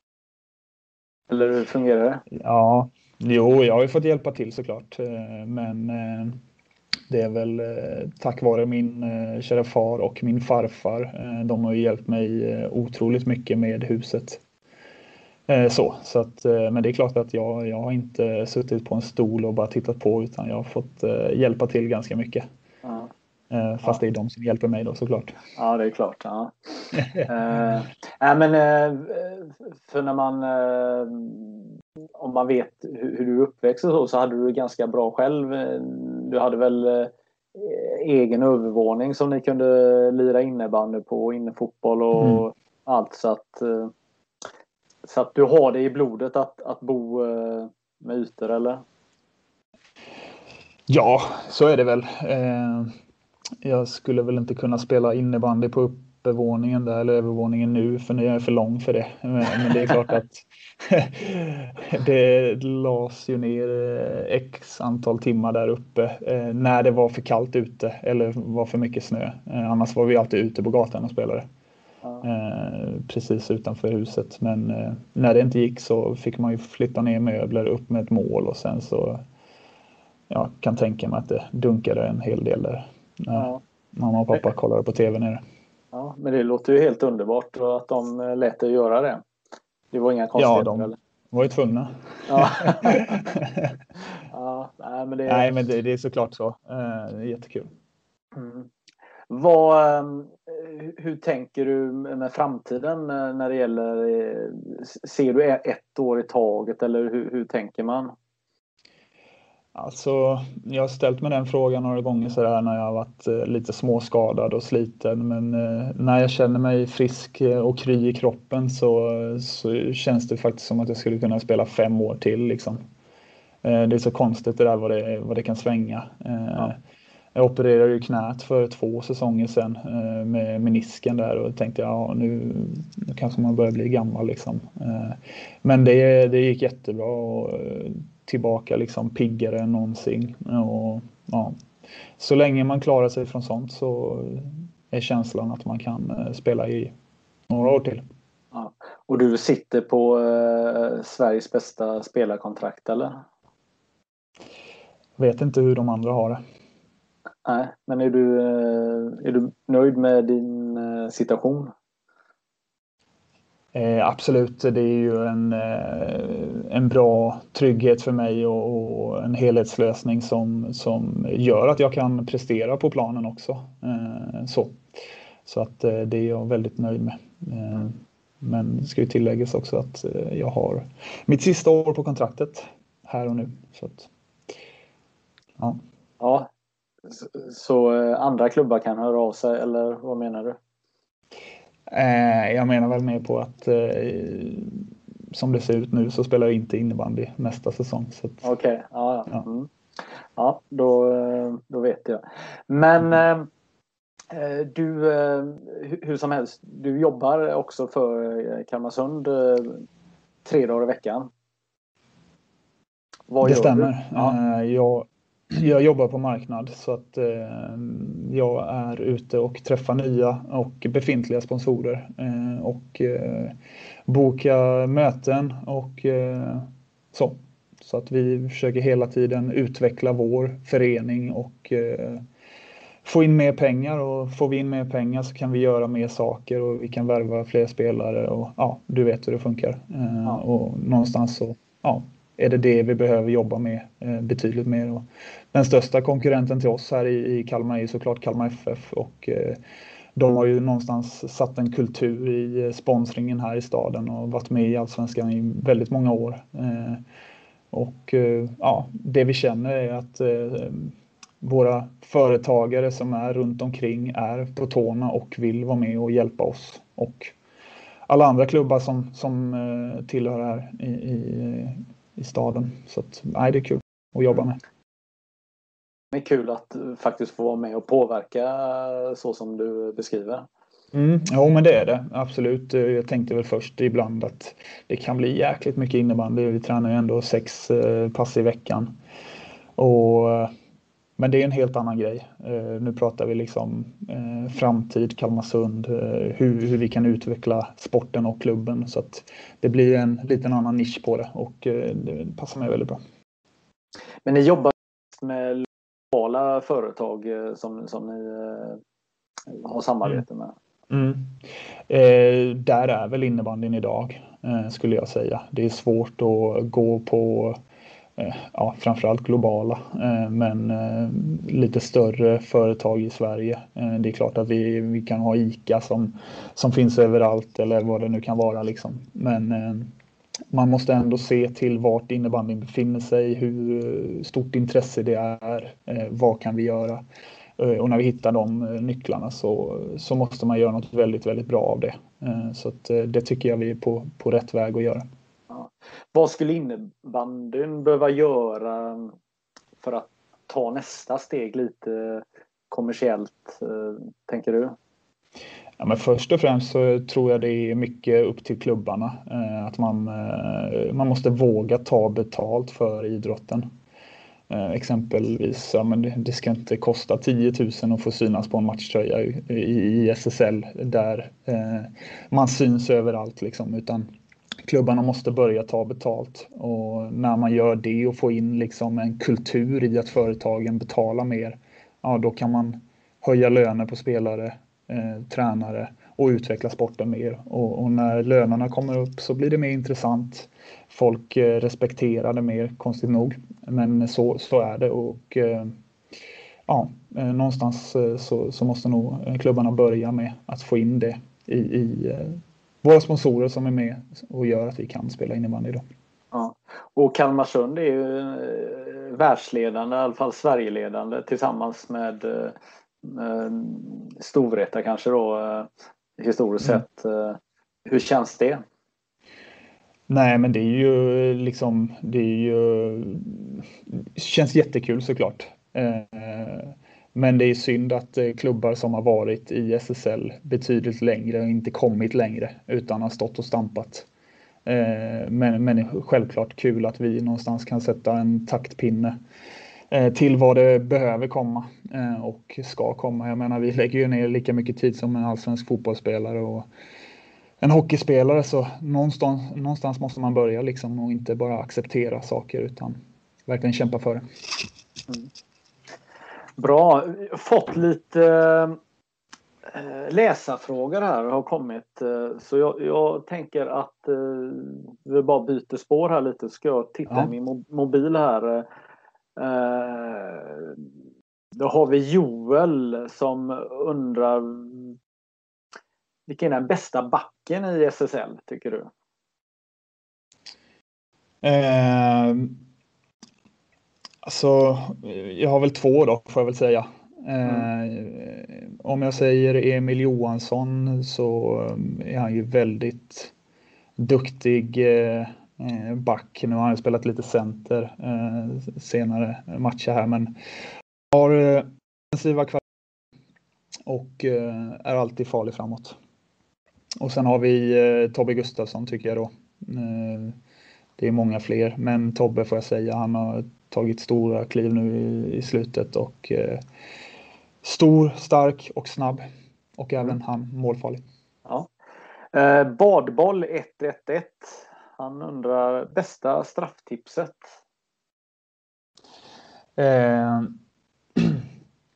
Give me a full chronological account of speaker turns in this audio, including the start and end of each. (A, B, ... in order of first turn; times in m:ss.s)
0:01.3-0:02.2 A
0:02.3-0:06.4 B
0:07.1-0:14.4 B
0:15.5-0:22.5 B
0:22.8-0:23.1 A
0:23.5-0:25.4 B
0:25.6-0:43.9 A
0:45.1-0:48.8 A
0:50.9-0:52.9 B
0:53.6-1:11.5 B
1:12.2-1:19.2 B
1:20.3-1:25.4 B
1:23.3-1:23.6 A
1:25.9-1:29.2 A
1:29.9-1:31.0 A
1:30.4-1:33.7 B
1:32.3-1:33.0 A
1:34.3-1:35.6 A
1:35.3-1:37.7 B
1:38.4-1:38.7 A
1:39.3-1:48.1 A
1:49.7-2:02.8 B
2:03.6-2:06.8 B
2:07.4-2:21.6 B
2:22.2-2:26.9 B
2:27.5-2:28.0 B
2:28.5-2:33.2 A
2:35.2-2:36.4 B
2:37.4-2:41.7 A
2:43.7-2:54.8 B
2:55.4-3:04.1 B
3:06.2-3:06.5 A
3:07.1-3:10.6 A
3:11.9-3:18.4 B
3:18.4-3:19.7 A
3:20.4-3:23.5 A
3:24.3-3:29.9 A
3:30.4-3:31.3 A
3:33.3-3:34.4 A
3:33.4-3:43.6 B
3:44.1-3:52.2 B
3:53.0-4:09.6 B
4:10.2-4:17.0 B
4:17.7-4:27.3 B
4:28.1-4:34.6 B
4:36.1-4:40.5 A
4:40.9-4:48.9 B
4:49.8-4:50.5 B
4:51.2-5:03.0 B
5:04.2-5:08.8 A
5:09.5-5:10.5 A
5:10.9-5:11.4 B
5:11.9-5:17.6 B
5:18.2-5:29.9 B
5:30.5-5:37.0 B
5:37.6-5:45.0 B
5:45.5-5:49.2 A
5:49.8-5:54.8 A
5:55.8-6:03.7 B
6:04.5-6:14.1 B
6:14.6-6:35.8 B
6:36.7-6:45.8 B
6:46.3-6:58.6 A
7:00.1-7:14.1 B
7:14.6-7:19.2 B
7:19.9-7:26.7 B
7:27.6-7:34.3 B
7:36.6-7:38.8 A
7:39.6-7:48.7 A
7:49.4-7:50.8 A
7:51.6-7:55.0 A
7:56.3-7:58.9 A
8:01.4-8:02.6 B
8:04.2-8:13.3 B
8:14.0-8:20.4 B
8:21.1-8:22.6 B
8:23.9-8:26.0 B
8:27.0-8:30.4 B
8:31.0-8:36.6 B
8:37.6-8:39.3 B
8:39.8-8:41.0 B
8:42.3-8:47.6 A
8:49.8-8:50.6 B
8:51.2-8:51.5 B